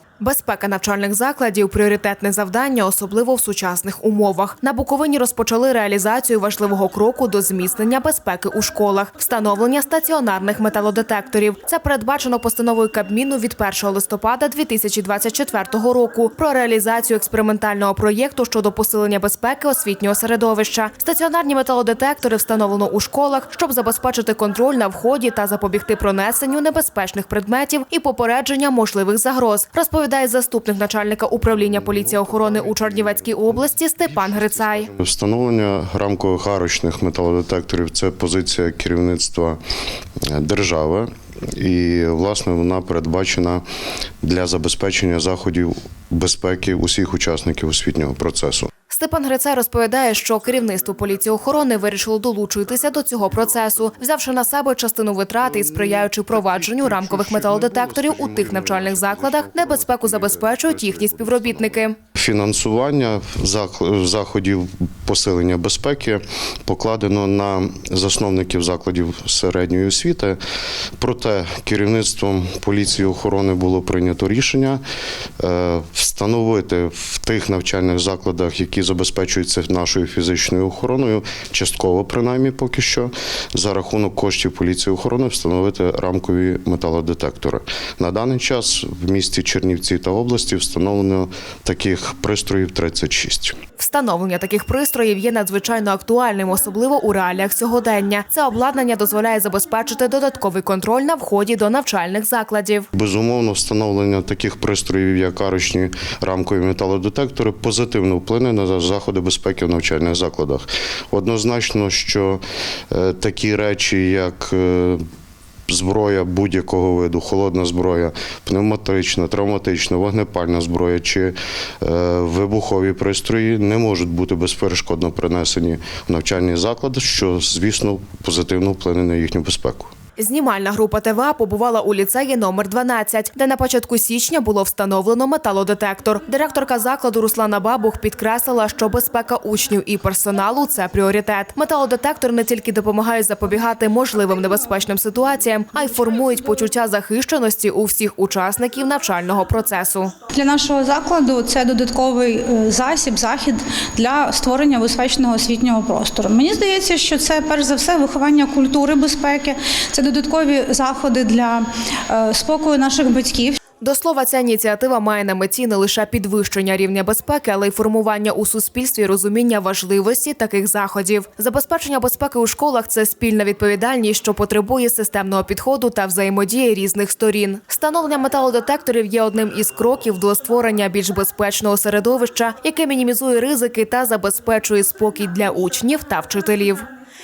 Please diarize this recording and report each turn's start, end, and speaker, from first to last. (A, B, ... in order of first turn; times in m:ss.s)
0:00.2-0:34.9 A
0:31.5-0:39.6 B
0:40.2-0:43.6 B
0:44.2-0:48.7 B
0:48.9-1:02.0 A
0:55.4-1:10.4 B
1:11.0-1:14.8 B
1:15.4-1:33.6 B
1:33.8-1:42.9 A
1:42.9-1:55.0 B
1:55.7-2:09.9 B
2:10.2-2:30.1 A
2:30.3-2:43.6 C
2:43.8-3:06.9 A